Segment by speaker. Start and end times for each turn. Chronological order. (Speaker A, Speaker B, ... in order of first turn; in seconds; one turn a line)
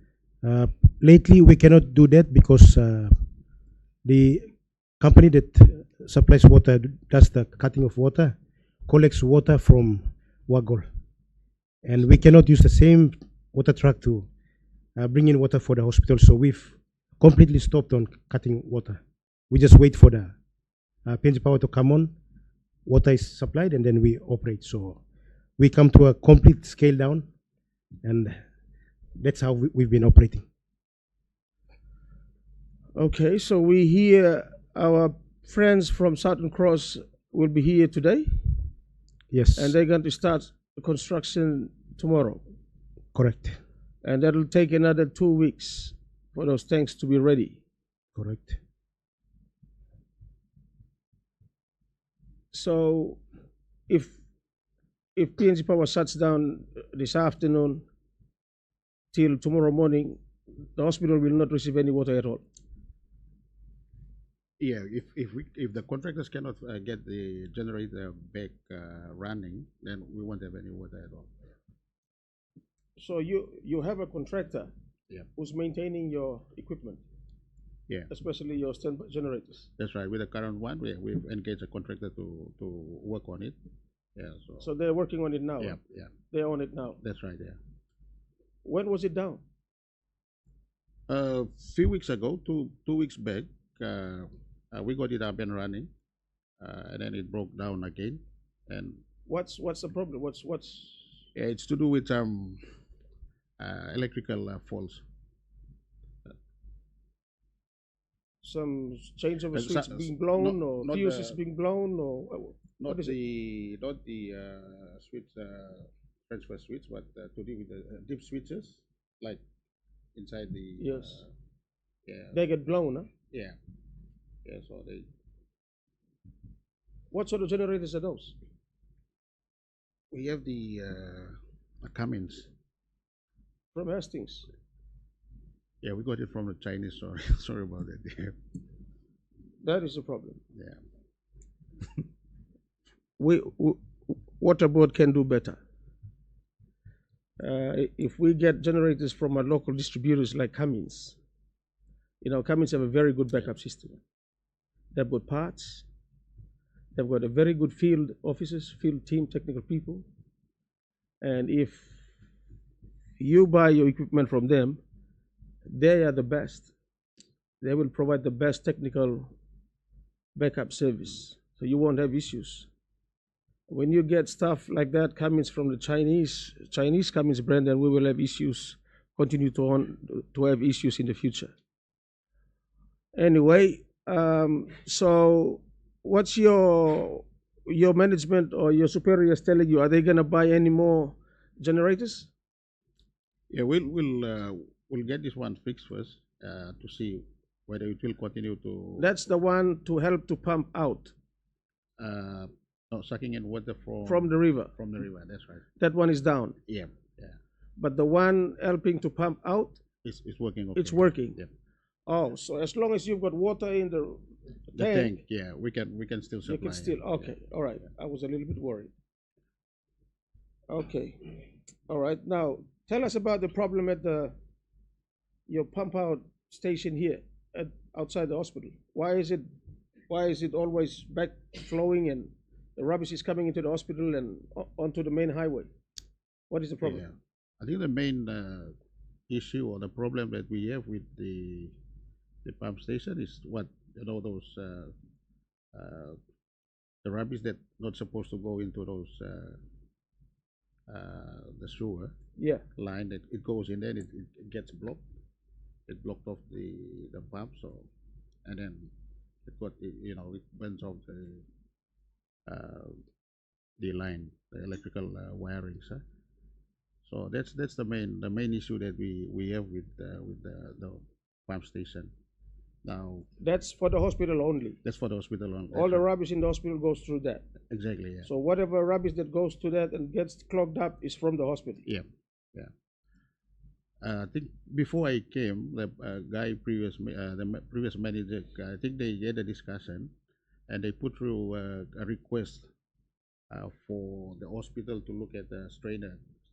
Speaker A: 0.4-3.1
Speaker A: 4.0-8.3
Speaker A: 8.8-10.9
Speaker A: 11.8-14.3
Speaker A: 15.0-20.3
Speaker A: 21.0-22.1
Speaker A: 22.8-25.0
Speaker A: 25.6-27.2
Speaker A: 28.0-28.4
Speaker A: 29.2-30.4
Speaker B: 33.0-38.4
Speaker A: 39.3-39.8
Speaker B: 39.5-42.4
Speaker A: 43.1-43.6
Speaker B: 44.0-47.6
Speaker A: 48.1-48.6
Speaker B: 52.5-53.2
Speaker B: 53.9-54.2
Speaker B: 55.1-57.8
Speaker B: 59.1-60.2
Speaker B: 60.8-62.4
Speaker C: 64.6-71.3
Speaker B: 73.0-74.7
Speaker B: 75.3-77.0
Speaker B: 78.1-79.7
Speaker C: 79.8-83.5
Speaker C: 84.2-84.7
Speaker B: 84.6-85.8
Speaker C: 85.6-86.1
Speaker B: 86.3-87.0
Speaker C: 87.0-87.6
Speaker B: 88.6-89.4
Speaker C: 91.1-95.9
Speaker C: 96.6-99.0
Speaker B: 99.2-101.2
Speaker C: 101.3-102.6
Speaker C: 103.6-105.0
Speaker B: 108.4-113.1
Speaker C: 109.5-111.4
Speaker C: 112.8-119.4
Speaker C: 120.2-121.3
Speaker B: 120.8-121.2
Speaker C: 122.0-122.4
Speaker B: 122.3-123.1
Speaker C: 123.3-123.5
Speaker C: 124.4-125.1
Speaker B: 127.1-128.3
Speaker C: 130.1-132.5
Speaker B: 133.7-134.5
Speaker C: 135.8-138.3
Speaker B: 139.6-140.4
Speaker C: 140.5-140.8
Speaker B: 143.2-145.6
Speaker B: 147.4-151.2
Speaker B: 152.2-154.0
Speaker B: 154.9-155.8
Speaker B: 156.9-160.1
Speaker B: 161.2-162.0
Speaker B: 163.2-164.8
Speaker B: 165.7-166.7
Speaker B: 167.6-169.3
Speaker B: 170.3-172.7
Speaker B: 173.7-181.5
Speaker B: 183.1-192.3
Speaker C: 193.5-199.1
Speaker B: 199.0-201.1
Speaker C: 202.0-205.6
Speaker B: 204.0-204.7
Speaker B: 205.8-206.6
Speaker C: 206.7-207.3
Speaker B: 207.8-209.8
Speaker C: 210.0-211.5
Speaker B: 210.8-211.4
Speaker B: 212.1-214.2
Speaker C: 214.7-217.3
Speaker B: 214.7-215.2
Speaker B: 216.4-218.9
Speaker B: 220.7-224.3
Speaker B: 225.5-229.5
Speaker B: 230.1-235.7
Speaker B: 236.5-237.0
Speaker C: 236.8-238.7
Speaker C: 239.3-241.7
Speaker C: 242.4-244.9
Speaker C: 245.7-246.2
Speaker C: 247.0-249.6
Speaker C: 250.9-252.1
Speaker B: 252.4-252.6
Speaker C: 252.8-255.0
Speaker C: 255.9-257.9
Speaker C: 258.4-258.9
Speaker C: 259.4-261.4
Speaker C: 262.5-263.0
Speaker C: 263.8-266.0
Speaker C: 267.1-272.1
Speaker C: 272.8-273.3
Speaker B: 273.4-274.8
Speaker C: 274.8-276.1
Speaker B: 275.7-277.4
Speaker C: 277.7-278.3
Speaker B: 278.2-281.8
Speaker C: 281.8-282.7
Speaker C: 284.0-290.1
Speaker C: 290.7-292.7
Speaker C: 293.5-296.2